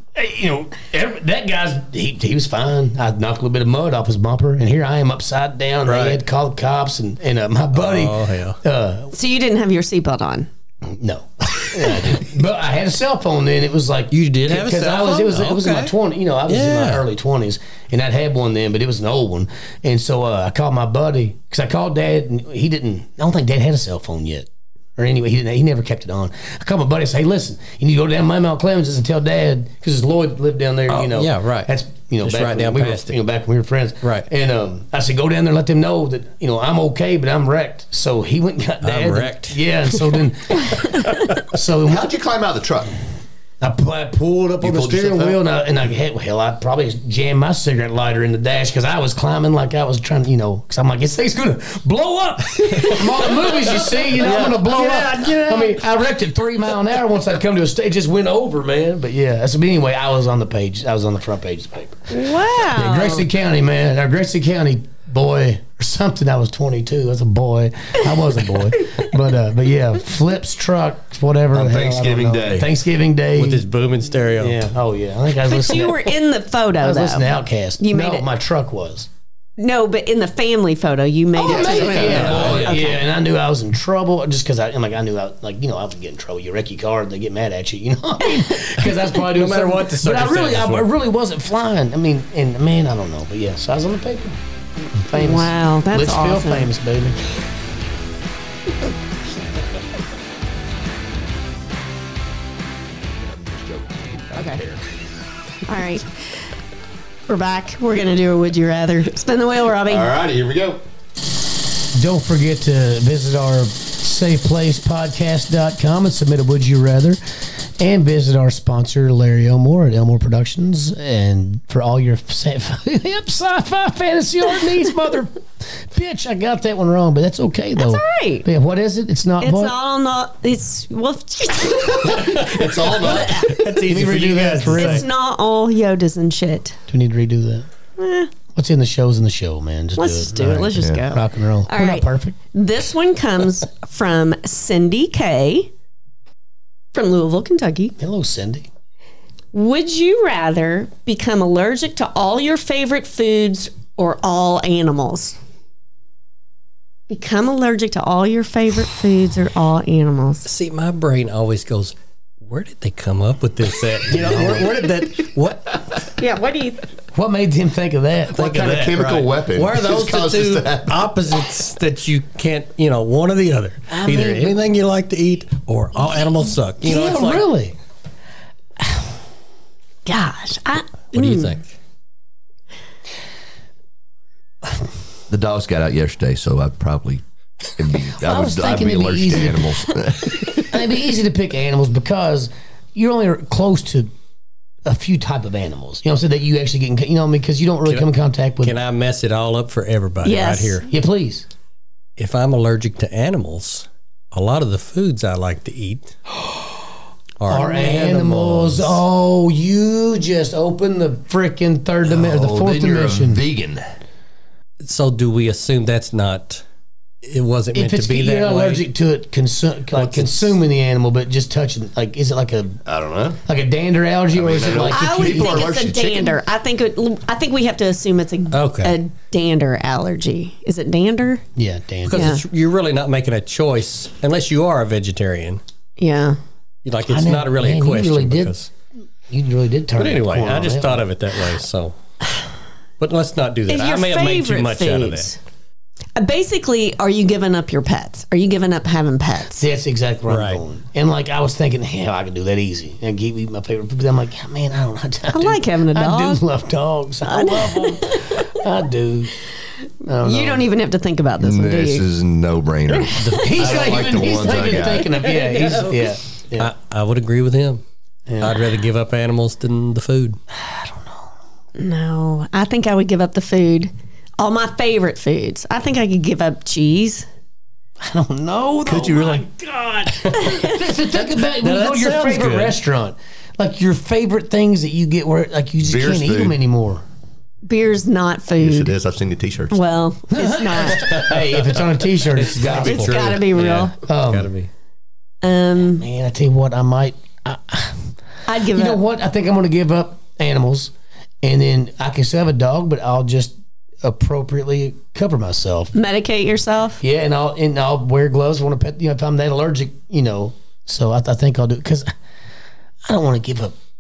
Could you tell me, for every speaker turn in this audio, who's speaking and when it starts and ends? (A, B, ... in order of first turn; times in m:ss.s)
0:00.2-0:09.1 A
0:05.8-0:06.2 B
0:07.7-0:08.6 B
0:09.1-0:10.5 C
0:10.9-0:42.1 A
0:14.1-0:15.9 B
0:16.5-0:17.0 B
0:30.9-0:33.2 B
0:34.0-0:34.3 B
0:38.8-0:39.6 B
0:40.9-0:41.3 B
0:41.8-0:42.9 D
0:43.6-1:13.6 A
0:44.6-0:45.4 D
0:52.6-0:55.9 B
1:02.1-1:03.3 C
1:11.5-1:12.7 D
1:13.3-1:14.6 B
1:14.4-1:16.2 A
1:15.4-1:18.3 C
1:16.8-1:19.1 A
1:19.6-1:23.0 C
1:21.4-1:34.4 A
1:21.4-1:22.8 D
1:21.9-1:23.0 B
1:29.2-1:30.9 B
1:34.9-1:37.2 A
1:35.1-1:36.7 C
1:43.2-1:44.8 D
1:44.4-1:44.6 C
1:45.6-1:46.4 C
1:47.3-1:50.1 C
1:49.9-1:50.8 D
1:52.0-2:09.7 A
2:07.8-2:08.5 C
2:09.4-2:13.6 C
2:12.0-2:13.5 D
2:12.6-2:15.1 B
2:13.7-2:15.1 A
2:14.8-2:16.8 C
2:16.9-2:17.7 A
2:18.0-2:18.3 C
2:18.5-2:22.4 A
2:20.0-2:25.7 C
2:20.8-2:21.0 D
2:26.9-2:28.0 C
2:28.0-2:28.7 A
2:29.5-2:35.4 C
2:37.1-2:40.5 C
2:40.4-2:45.9 B
2:44.2-2:44.6 A
2:46.2-2:46.8 C
2:47.1-2:48.9 A
2:48.3-2:57.5 B
2:48.4-2:51.1 D
2:53.9-2:54.6 A
2:56.8-2:57.8 A
3:00.1-3:01.6 C
3:01.1-3:01.7 B
3:05.3-3:07.2 D
3:07.8-3:10.8 D
3:08.2-3:14.1 A
3:14.8-3:18.8 A
3:18.6-3:20.9 B
3:20.2-3:20.8 C
3:20.9-3:21.5 A
3:22.2-3:26.1 B
3:27.4-3:29.0 B
3:27.5-3:33.4 A
3:32.0-3:34.0 D
3:34.8-3:36.6 B
3:37.2-3:38.8 B
3:37.8-3:42.8 A
3:39.9-3:40.6 B
3:42.9-3:43.4 D
3:43.4-3:45.7 A
3:44.3-3:46.4 D
3:44.9-3:51.4 C
3:48.5-3:49.0 B
3:51.6-3:52.2 A
3:52.0-3:55.6 B
3:52.1-3:52.4 C
3:56.0-3:56.4 C
3:56.8-3:58.7 B
3:57.1-3:58.6 A
3:59.3-4:01.0 A
4:00.0-4:02.0 B
4:03.0-4:05.4 B
4:03.7-4:05.4 C
4:06.2-4:09.7 C
4:09.6-4:19.4 A
4:10.3-4:10.6 B
4:15.3-4:16.4 C
4:17.2-4:18.4 C
4:20.0-4:20.7 A
4:20.2-4:22.0 C
4:21.4-4:25.1 D
4:23.2-4:27.8 B
4:23.3-4:26.7 A
4:28.3-4:28.6 A
4:28.4-4:30.4 B
4:30.5-4:31.3 A
4:31.8-4:37.3 C
4:38.0-4:47.0 A
4:38.8-4:39.4 D
4:41.6-4:42.8 B
4:45.8-4:46.6 D
4:47.6-4:48.9 C
4:48.6-4:49.8 D
4:49.7-4:51.2 C
4:50.3-4:53.4 A
4:50.8-4:54.7 B
4:52.8-4:53.9 C
4:54.0-4:54.5 A
4:55.4-4:56.1 C
4:56.0-4:58.1 A
4:58.5-4:59.0 C
4:58.7-5:05.9 A
5:05.9-5:07.0 C
5:07.0-5:12.1 A
5:13.1-5:13.7 A